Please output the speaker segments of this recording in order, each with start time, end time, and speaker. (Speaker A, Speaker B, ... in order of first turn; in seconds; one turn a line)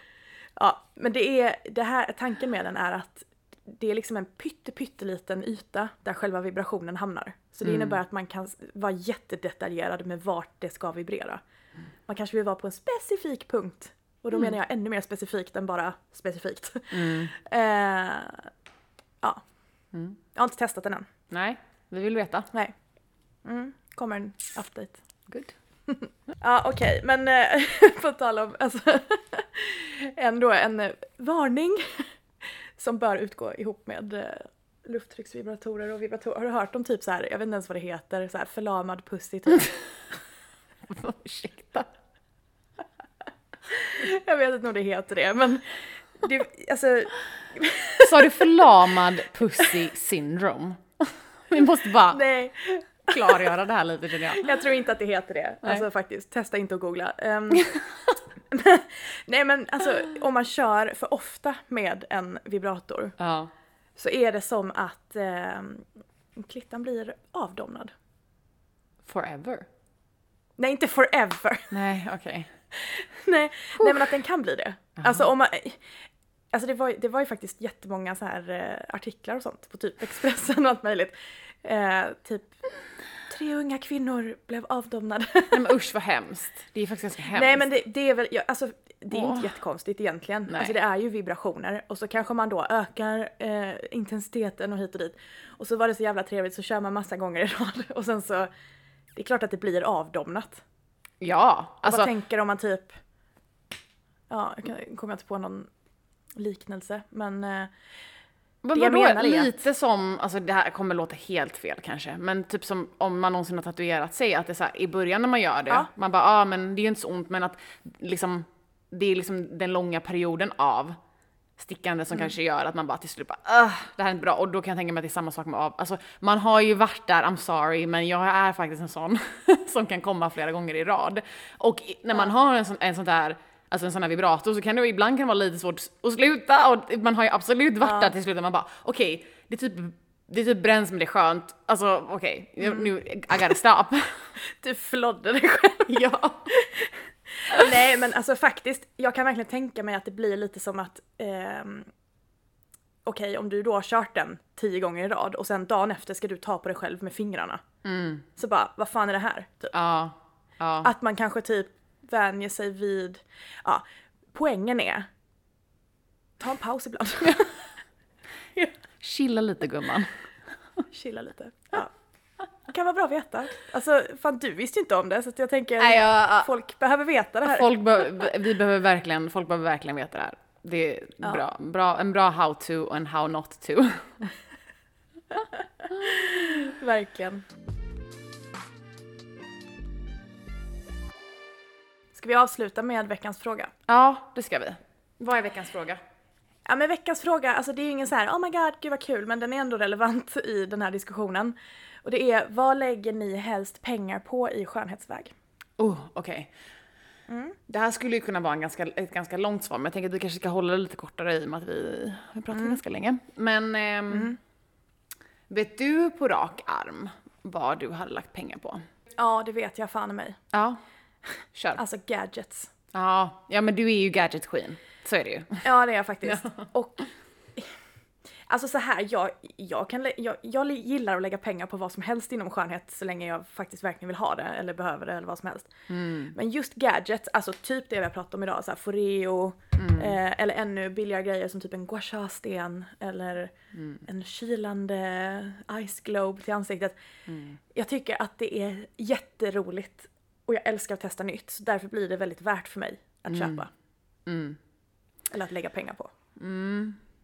Speaker A: 0.6-11.4
Speaker B: 7.6-8.0
Speaker A: 12.1-18.5
Speaker B: 16.9-17.3
Speaker A: 19.2-19.5
Speaker B: 19.9-20.2
Speaker A: 20.3-21.1
Speaker B: 21.3-22.5
Speaker A: 23.4-25.0
Speaker B: 25.3-25.6
Speaker A: 25.9-32.1
Speaker A: 32.8-40.0
Speaker B: 40.9-41.9
Speaker A: 43.7-48.6
Speaker B: 48.0-52.2
Speaker A: 52.1-53.5
Speaker B: 53.1-54.6
Speaker A: 54.4-57.9
Speaker A: 58.5-63.2
Speaker B: 63.2-63.5
Speaker A: 64.0-67.9
Speaker B: 69.0-69.7
Speaker A: 70.6-71.8
Speaker B: 71.7-72.5
Speaker A: 72.7-76.0
Speaker B: 73.8-74.1
Speaker B: 75.0-75.2
Speaker A: 76.5-82.6
Speaker A: 83.2-85.6
Speaker B: 85.5-87.7
Speaker A: 87.3-98.5
Speaker B: 89.1-89.5
Speaker B: 90.5-90.8
Speaker A: 99.2-100.6
Speaker B: 101.2-102.1
Speaker A: 101.8-103.0
Speaker A: 104.3-105.7
Speaker A: 106.4-107.7
Speaker B: 108.6-121.0
Speaker A: 108.8-109.6
Speaker B: 121.6-144.3
Speaker A: 137.8-138.1
Speaker A: 144.6-151.9
Speaker B: 145.9-146.5
Speaker A: 153.1-157.6
Speaker B: 157.8-158.3
Speaker A: 158.4-159.7
Speaker B: 159.7-160.9
Speaker A: 160.8-165.1
Speaker A: 166.4-167.7
Speaker B: 169.0-170.3
Speaker A: 170.9-171.9
Speaker A: 172.6-177.7
Speaker B: 175.8-176.5
Speaker B: 177.4-184.3
Speaker A: 185.8-187.4
Speaker B: 186.0-186.5
Speaker A: 192.1-193.7
Speaker B: 193.9-196.0
Speaker A: 196.7-205.3
Speaker B: 205.8-206.5
Speaker A: 207.3-207.6
Speaker B: 207.7-214.3
Speaker A: 212.5-212.8
Speaker A: 214.1-214.4
Speaker B: 215.5-218.8
Speaker A: 219.2-220.4
Speaker B: 220.5-220.8
Speaker B: 221.5-221.8
Speaker A: 221.8-222.7
Speaker B: 222.9-225.7
Speaker A: 225.6-227.7
Speaker B: 226.2-226.6
Speaker A: 228.5-246.9
Speaker B: 235.9-236.4
Speaker B: 239.8-240.2
Speaker B: 243.7-244.0
Speaker B: 247.3-247.6
Speaker A: 247.7-253.7
Speaker B: 253.3-253.7
Speaker B: 254.3-254.6
Speaker A: 255.3-256.1
Speaker B: 256.4-257.0